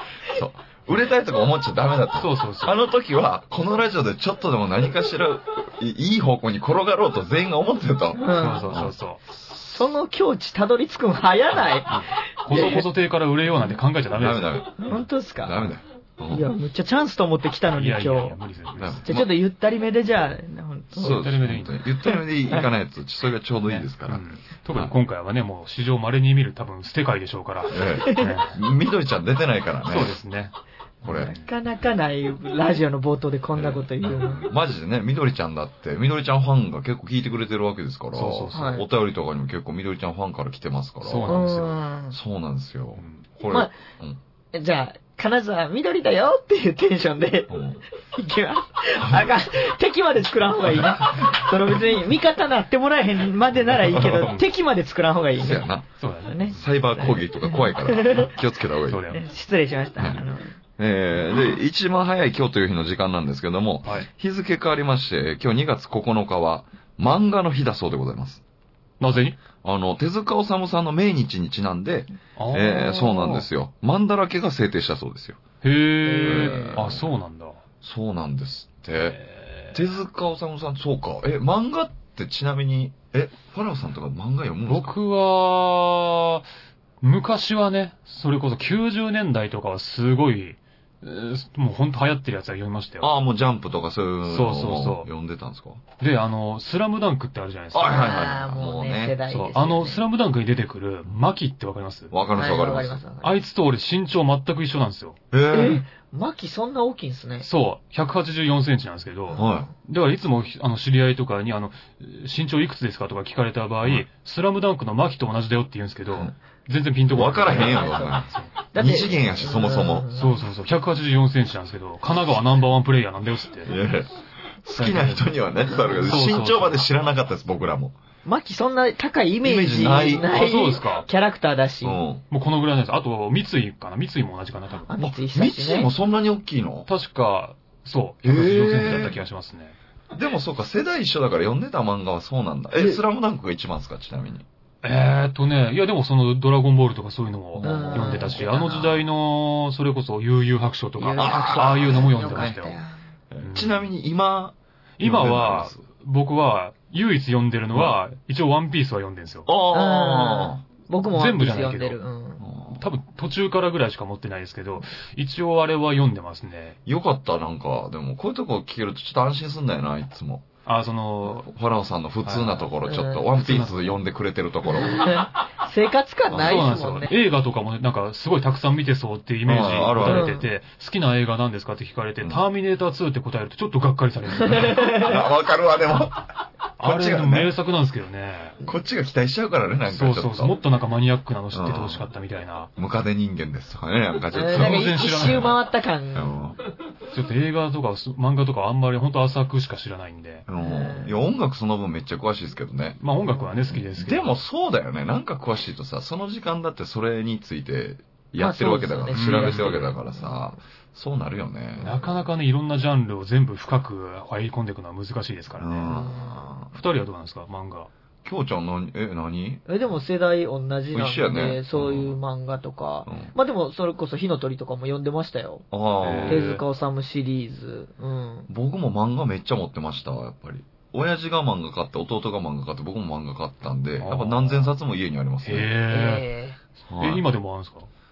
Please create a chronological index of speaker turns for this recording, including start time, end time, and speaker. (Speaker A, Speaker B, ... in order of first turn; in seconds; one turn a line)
Speaker A: 0.2-9.8
Speaker B: 2.2-2.8
Speaker C: 8.2-8.7
Speaker B: 8.3-9.2
Speaker C: 9.6-12.8
Speaker B: 11.9-14.6
Speaker A: 14.1-16.5
Speaker C: 14.8-15.7
Speaker C: 16.3-18.4
Speaker B: 17.7-19.1
Speaker A: 18.8-19.3
Speaker C: 19.1-21.2
Speaker A: 20.9-24.9
Speaker B: 21.0-21.8
Speaker C: 22.0-22.7
Speaker B: 23.7-28.6
Speaker A: 27.7-30.2
Speaker B: 29.8-30.5
Speaker A: 31.0-31.3
Speaker C: 31.0-34.5
Speaker B: 31.1-31.4
Speaker A: 33.5-41.5
Speaker B: 38.1-38.8
Speaker C: 38.5-38.8
Speaker B: 41.0-41.8
Speaker C: 41.2-42.2
Speaker A: 42.1-44.2
Speaker B: 43.0-43.2
Speaker C: 43.5-43.7
Speaker C: 44.5-47.6
Speaker A: 47.5-47.8
Speaker C: 48.1-55.7
Speaker A: 49.0-49.3
Speaker A: 50.8-51.2
Speaker A: 53.9-54.3
Speaker B: 54.0-54.4
Speaker A: 55.4-55.9
Speaker B: 56.0-56.5
Speaker C: 56.3-58.3
Speaker A: 56.5-59.1
Speaker B: 58.9-59.2
Speaker C: 59.1-60.5
Speaker A: 60.0-60.2
Speaker A: 60.8-68.4
Speaker B: 69.0-69.4
Speaker A: 69.1-75.4
Speaker B: 72.4-73.5
Speaker B: 75.6-77.6
Speaker C: 76.1-76.9
Speaker A: 76.2-77.1
Speaker A: 77.8-79.2
Speaker B: 79.0-79.8
Speaker A: 79.7-85.0
Speaker B: 84.7-86.5
Speaker B: 87.0-93.1
Speaker A: 93.0-95.8
Speaker B: 94.3-95.1
Speaker B: 96.0-98.2
Speaker A: 97.7-99.2
Speaker C: 97.8-100.0
Speaker B: 99.3-102.1
Speaker A: 102.1-103.0
Speaker C: 102.3-103.4
Speaker B: 103.2-105.2
Speaker A: 105.3-105.8
Speaker C: 105.5-107.5
Speaker B: 107.4-118.5
Speaker A: 109.3-109.7
Speaker A: 117.1-120.1
Speaker C: 117.6-120.3
Speaker B: 120.1-123.8
Speaker A: 123.6-128.0
Speaker B: 124.8-125.2
Speaker B: 126.0-126.9
Speaker C: 128.2-132.0
Speaker A: 129.4-130.3
Speaker B: 130.2-131.1
Speaker A: 131.8-132.2
Speaker B: 132.3-134.9
Speaker C: 134.9-135.9
Speaker A: 135.0-136.9
Speaker B: 136.9-139.8
Speaker A: 138.2-139.2
Speaker A: 140.1-144.4
Speaker C: 142.8-143.0
Speaker B: 144.8-152.8
Speaker A: 147.5-148.4
Speaker C: 147.6-149.0
Speaker C: 151.0-152.9
Speaker A: 151.2-152.5
Speaker A: 153.3-155.8
Speaker B: 153.4-153.9
Speaker B: 155.0-159.5
Speaker A: 159.5-160.6
Speaker C: 159.7-162.4
Speaker B: 161.1-162.0
Speaker A: 162.4-162.8
Speaker B: 162.7-166.8
Speaker A: 166.8-170.5
Speaker B: 170.7-171.5
Speaker A: 171.5-175.3
Speaker B: 172.2-172.7
Speaker C: 172.9-173.2
Speaker B: 173.3-174.0
Speaker C: 174.8-177.1
Speaker A: 176.3-176.9
Speaker B: 176.3-185.0
Speaker A: 179.5-180.3
Speaker C: 180.0-180.4
Speaker C: 184.5-185.1
Speaker A: 184.6-186.2
Speaker B: 186.8-188.6
Speaker A: 186.8-187.5
Speaker A: 188.6-190.6
Speaker B: 189.9-192.7
Speaker A: 191.5-192.1
Speaker A: 192.8-194.9
Speaker C: 194.3-196.4
Speaker B: 194.3-195.6
Speaker A: 196.2-196.6
Speaker B: 197.1-200.5
Speaker A: 200.5-203.0
Speaker C: 200.5-201.2
Speaker B: 203.0-204.4
Speaker A: 203.7-212.2
Speaker C: 208.4-210.0
Speaker B: 209.1-209.9
Speaker B: 211.8-215.7
Speaker A: 215.6-216.7
Speaker C: 215.8-216.5
Speaker B: 216.7-217.9
Speaker A: 218.2-219.6
Speaker C: 219.7-225.7
Speaker A: 220.9-222.2
Speaker A: 223.1-223.3
Speaker A: 225.7-226.5
Speaker B: 226.0-226.6
Speaker C: 226.2-228.5
Speaker A: 228.5-235.8
Speaker B: 234.0-234.7
Speaker B: 235.4-236.3
Speaker C: 235.9-236.6
Speaker A: 236.9-237.2
Speaker B: 237.0-237.9